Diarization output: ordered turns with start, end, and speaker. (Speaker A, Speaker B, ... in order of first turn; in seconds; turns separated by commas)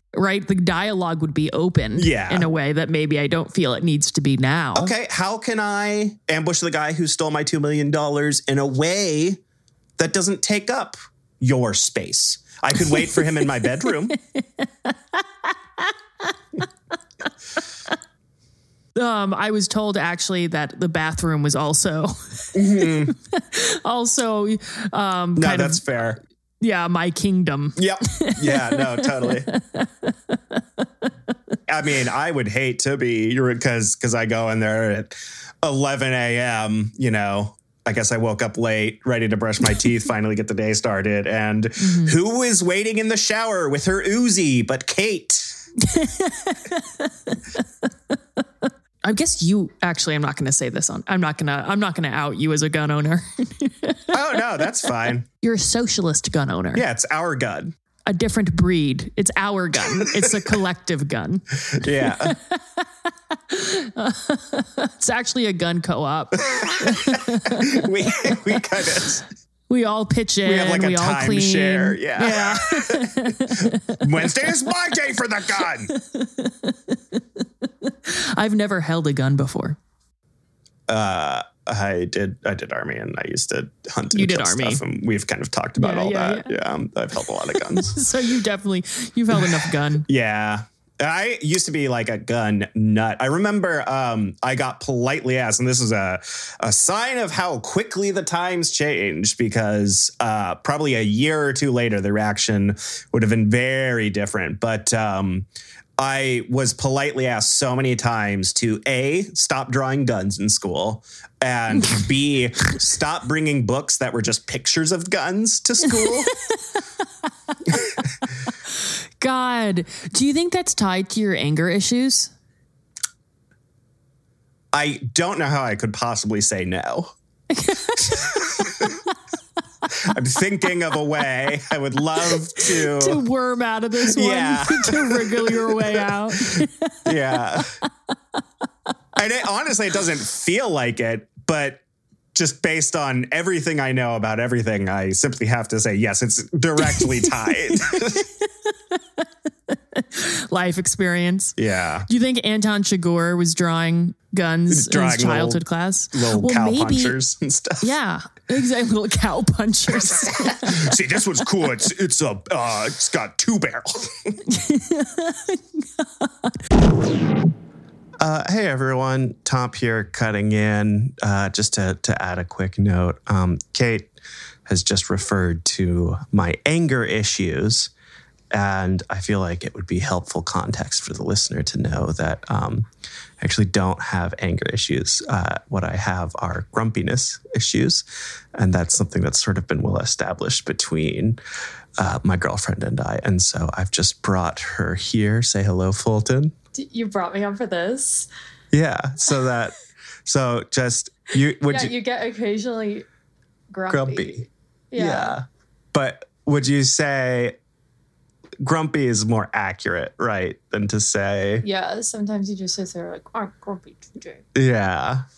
Speaker A: 0.1-4.9, Speaker B: 2.0-2.5, Speaker B: 4.8-9.4, Speaker B: 10.0-14.2, Speaker A: 12.9-13.2, Speaker A: 14.1-16.3, Speaker A: 18.9-25.9, Speaker B: 22.5-23.1, Speaker B: 25.4-26.2, Speaker A: 26.6-30.8, Speaker B: 27.8-29.5, Speaker B: 31.7-45.5, Speaker A: 41.8-42.2, Speaker A: 45.8-47.6, Speaker A: 49.0-54.4, Speaker B: 54.1-55.3, Speaker A: 55.4-56.9, Speaker B: 56.7-57.7, Speaker A: 58.1-62.9, Speaker B: 59.9-60.5, Speaker B: 61.7-62.4, Speaker A: 63.5-68.3, Speaker B: 66.5-69.2, Speaker A: 69.7-74.5, Speaker B: 70.4-75.9, Speaker A: 75.9-79.8, Speaker B: 80.9-88.0, Speaker A: 84.1-84.8, Speaker A: 85.8-86.5, Speaker A: 87.5-90.1, Speaker B: 89.3-105.5, Speaker B: 106.0-116.3, Speaker A: 111.8-112.1, Speaker A: 115.9-116.8, Speaker A: 119.2-122.3, Speaker B: 124.7-127.1, Speaker A: 127.5-129.0, Speaker B: 128.0-129.0, Speaker B: 129.9-133.2, Speaker A: 132.2-137.9, Speaker B: 134.0-137.8, Speaker B: 139.2-141.8, Speaker B: 142.3-148.3, Speaker A: 146.8-157.2, Speaker B: 151.6-152.1, Speaker B: 154.7-155.6, Speaker B: 156.1-157.9, Speaker A: 157.8-160.9, Speaker B: 159.9-164.4, Speaker A: 164.4-166.6, Speaker B: 168.2-174.1, Speaker B: 174.7-177.9, Speaker B: 178.5-182.9, Speaker B: 183.4-191.4, Speaker B: 192.0-196.5, Speaker C: 196.7-198.3, Speaker B: 198.7-199.8, Speaker B: 200.3-201.9, Speaker C: 201.6-203.1, Speaker C: 203.7-205.4, Speaker B: 203.9-204.4, Speaker B: 205.0-207.6, Speaker B: 208.6-211.7, Speaker C: 211.6-214.4, Speaker B: 214.6-215.2